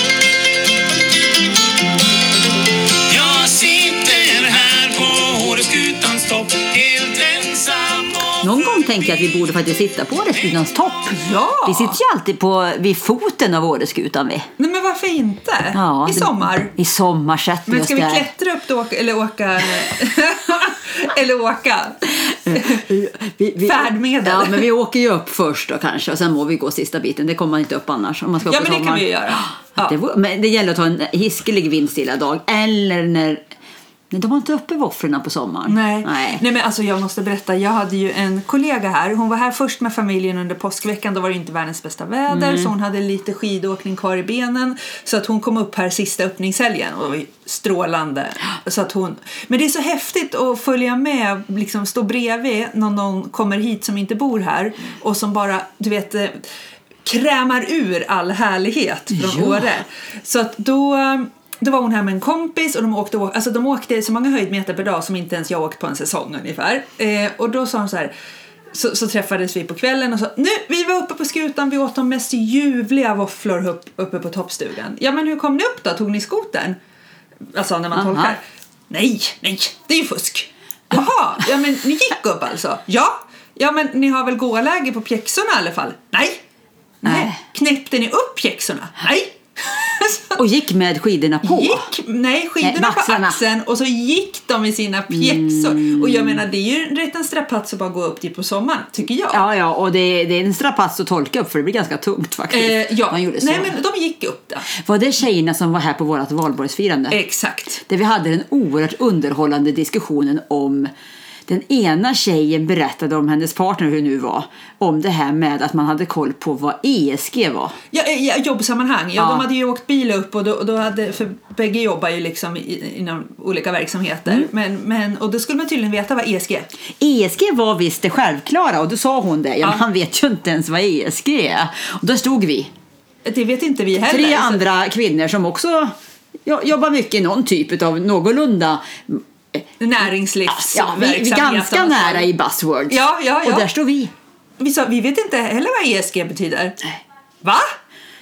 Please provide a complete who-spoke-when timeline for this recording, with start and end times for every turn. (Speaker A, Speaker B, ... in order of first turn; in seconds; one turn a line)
Speaker A: 3.1-8.6
Speaker B: 8.4-14.5
Speaker C: 11.2-12.0
Speaker C: 14.6-16.7
Speaker B: 15.7-18.3
Speaker C: 17.7-22.8
Speaker B: 22.2-33.5
Speaker C: 23.6-24.7
Speaker C: 28.5-29.9
Speaker B: 34.1-36.4
Speaker C: 35.7-56.4
Speaker B: 42.3-42.7
Speaker C: 57.0-68.1
Speaker B: 59.2-59.6
Speaker C: 68.7-76.8
Speaker C: 77.5-86.4
Speaker B: 77.9-78.3
Speaker C: 87.0-90.4
Speaker B: 87.0-87.4
Speaker B: 90.3-91.9
Speaker C: 91.4-99.4
Speaker B: 92.6-93.4
Speaker B: 95.1-96.4
Speaker B: 99.3-103.7
Speaker C: 102.5-104.7
Speaker B: 104.7-107.2
Speaker C: 107.1-107.8
Speaker B: 107.8-110.9
Speaker B: 111.5-117.8
Speaker C: 117.9-126.7
Speaker B: 119.2-119.5
Speaker B: 127.0-132.7
Speaker C: 133.2-134.6
Speaker B: 134.0-139.6
Speaker C: 139.8-142.3
Speaker B: 140.5-144.1
Speaker C: 142.9-143.7
Speaker C: 144.6-146.8
Speaker C: 147.4-147.7